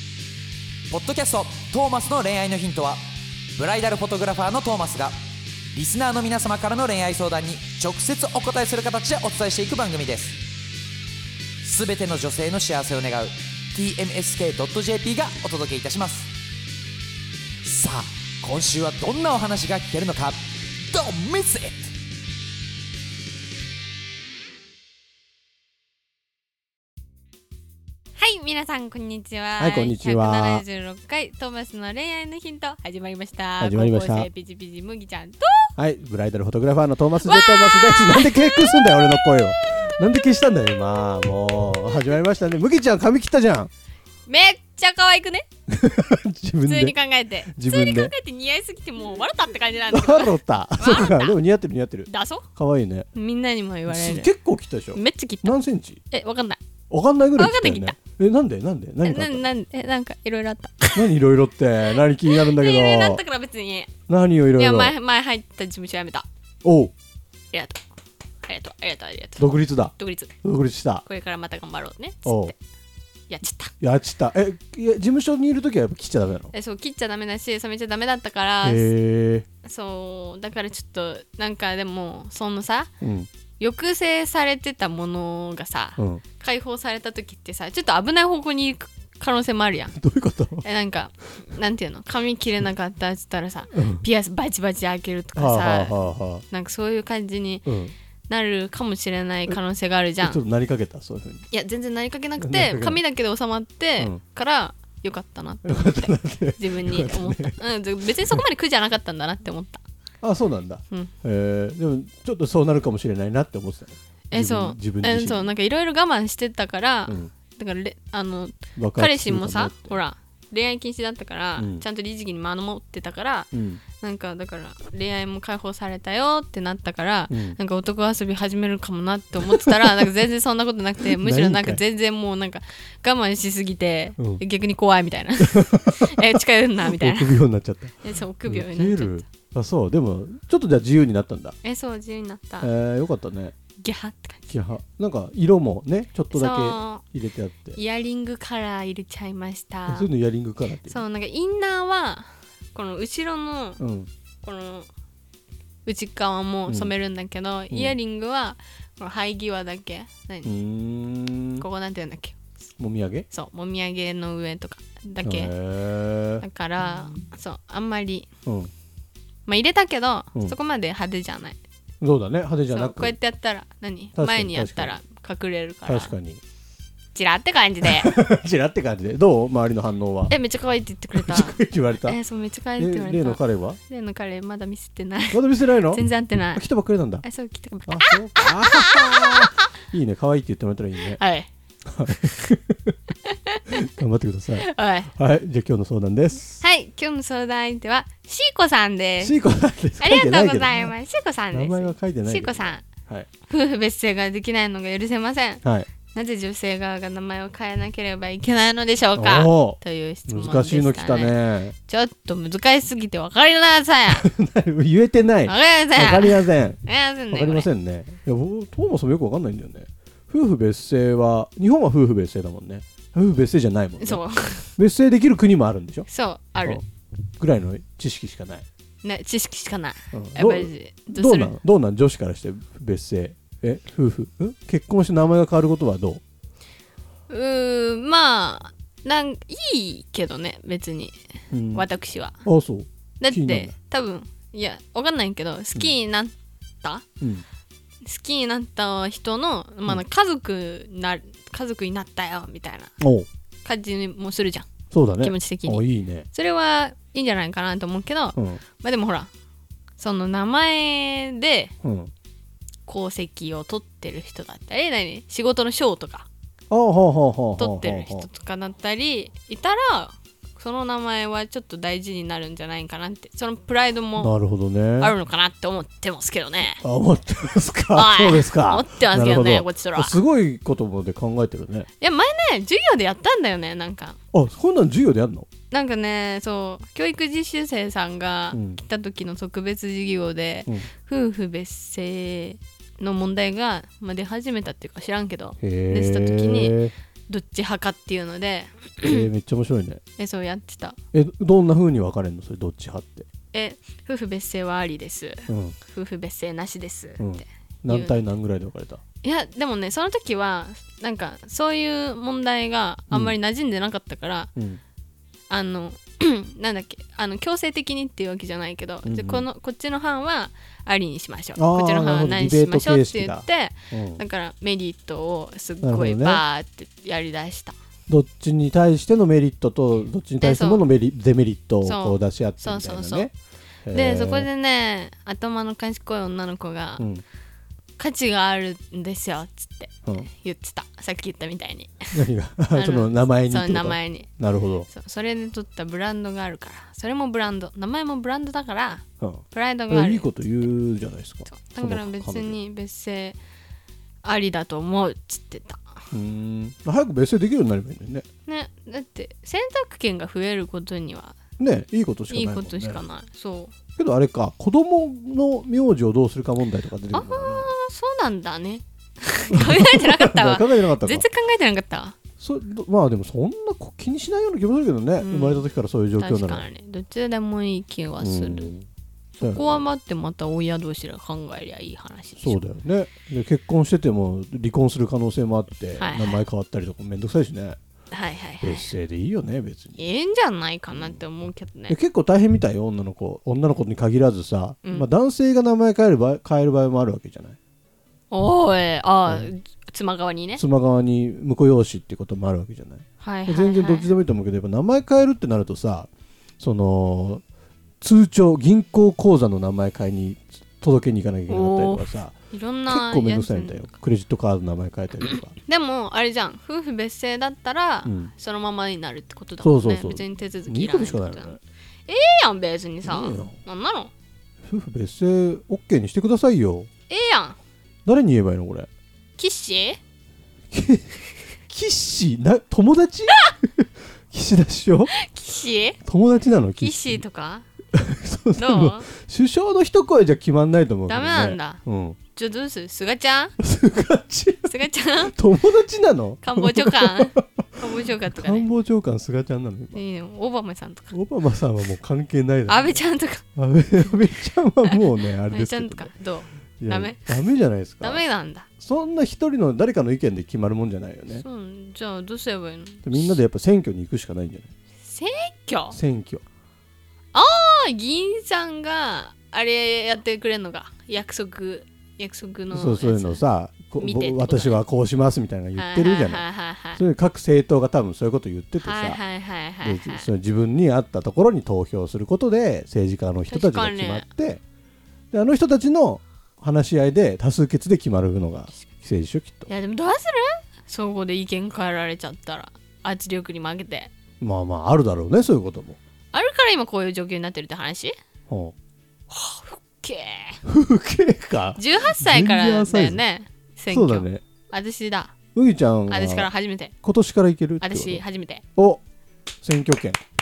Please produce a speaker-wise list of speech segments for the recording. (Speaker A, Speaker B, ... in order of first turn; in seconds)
Speaker A: 0.9-3.0, 3.5-5.1, 5.7-10.4, 11.6-16.3, 17.6-21.9
Speaker B: 28.2-35.7, 37.2-40.0, 44.3-45.5, 46.6-51.4, 52.1-52.5, 53.1-54.3, 54.9-55.6, 56.1-56.6, 57.4-58.0, 59.0-61.1, 62.2-63.9, 64.6-66.2, 67.5-67.8, 68.4-70.4, 71.0-72.6, 73.3-73.7, 76.5-78.9, 79.6-82.9, 83.6-89.9, 90.6-97.7, 98.3-100.4, 101.5-109.8, 114.3-137.4, 138.0-139.3, 141.6-142.7, 143.8-144.7, 146.3-147.0, 147.8-150.1, 150.9-153.8, 154.4-154.9, 155.8-160.5, 161.6-162.4, 163.3-165.5, 166.4-168.3, 169.5-171.6, 172.7-176.1, 177.1-178.2, 180.3-186.6, 187.2-189.7, 191.1-191.5, 193.2-193.8, 194.6-195.1, 196.6-199.4, 200.0-202.8, 203.4-214.2, 215.4-217.7, 224.0-224.7, 226.1-226.8, 229.0-231.5, 237.3-241.2, 241.7-242.4, 243.2-247.1, 248.0-252.9, 253.6-254.7, 255.2-259.3, 260.0-261.7, 262.9-266.3, 267.6-274.3, 275.0-276.8, 277.9-280.2, 282.0-284.2, 285.7-299.3, 300.2-301.0, 303.5-308.2, 309.2-314.5, 315.5-327.7, 330.4-330.9, 331.8-333.3, 333.9-337.1, 338.0-344.3, 344.9-350.3, 351.5-353.4, 354.2-356.0, 358.4-361.4, 362.3-363.7, 367.1-372.2, 375.2-375.7, 376.2-378.7, 379.4-382.6, 386.0-386.4, 388.1-388.9, 390.0-392.0, 398.3-400.6, 403.2-404.1, 411.5-413.9, 415.3-424.1, 427.1-427.6, 429.4-430.0, 435.2-436.0, 436.8-437.6, 438.6-439.1, 441.1-441.8, 442.3-443.6, 444.6-445.4, 446.4-448.7, 449.9-451.2, 452.7-453.4, 454.9-458.7, 461.3-463.3, 465.0-466.0, 467.3-473.4, 474.0-474.8, 475.8-477.0, 478.8-480.3, 483.5-484.3, 489.7-494.1, 496.3-498.1, 499.3-500.6, 501.8-505.3, 506.1-506.9, 507.8-508.6
Speaker C: 29.6-30.6, 33.6-34.3, 35.8-43.7, 45.7-46.9, 47.5-48.1, 49.9-53.1, 53.9-56.0, 56.9-59.5, 60.9-63.2, 64.1-65.0, 66.6-66.9, 69.4-71.0, 72.2-72.5, 73.8-76.5, 78.6-79.5, 83.0-83.3, 86.0-86.2, 89.9-90.6, 93.7-94.0, 95.3-96.4, 97.7-97.9, 100.2-101.4, 102.4-103.0, 105.6-107.6, 108.1-108.4, 110.2-115.5, 117.1-117.3, 118.8-120.0, 121.6-121.8, 123.5-123.8, 127.3-127.6, 129.4-130.1, 131.0-131.8, 135.4-141.6, 142.6-143.5, 144.5-147.8, 149.9-151.0, 153.8-154.1, 156.7-156.9, 157.7-157.9, 160.4-161.6, 162.8-163.3, 165.2-166.4, 168.4-168.7, 172.0-173.2, 174.2-174.9, 175.8-176.4, 177.8-180.3, 181.1-182.2, 182.8-183.8, 185.3-187.2, 187.9-191.2, 191.8-192.9, 193.7-196.6, 199.2-200.9, 201.5-203.3, 205.6-205.9, 209.2-211.8, 214.1-224.2, 224.7-226.1, 227.4-228.6, 230.1-236.2, 241.5-241.9, 242.4-243.7, 253.0-253.3, 254.9-256.3, 258.4-258.6, 261.8-262.1, 266.7-268.3, 274.2-275.1, 276.8-281.9, 284.3-285.5, 288.5-288.8, 295.6-296.9, 299.0-300.0, 301.1-303.3, 305.5-305.8, 307.2-309.0, 313.1-313.4, 314.6-314.8, 319.0-319.5, 321.6-324.2, 325.8-326.4, 328.1-333.3, 333.8-334.5, 337.0-337.2, 342.1-344.9, 349.2-352.6, 356.1-358.2, 361.6-363.0, 363.9-367.7, 369.5-371.3, 372.4-376.6, 378.2-378.8, 379.4-379.8, 382.4-387.8, 388.6-390.0, 390.9-391.2, 391.9-397.6, 399.2-399.5, 400.6-406.1, 406.6-407.4, 408.0-412.3, 412.9-415.5, 418.0-418.3, 419.6-421.6, 423.0-423.5, 424.6-426.9, 428.1-428.9, 430.7-435.2, 436.0-437.2, 437.9-442.2, 443.6-450.0, 451.1-453.0, 453.6-456.1, 456.8-458.2, 458.8-461.4, 463.0-464.7, 465.9-466.4, 472.7-476.4, 476.9-479.2, 479.8-484.6, 485.3-489.7, 494.4-496.0, 498.5-498.7, 500.6-503.2, 503.9-504.4, 505.5-506.5, 507.0-508.2, 508.8-509.0, 509.6-510.2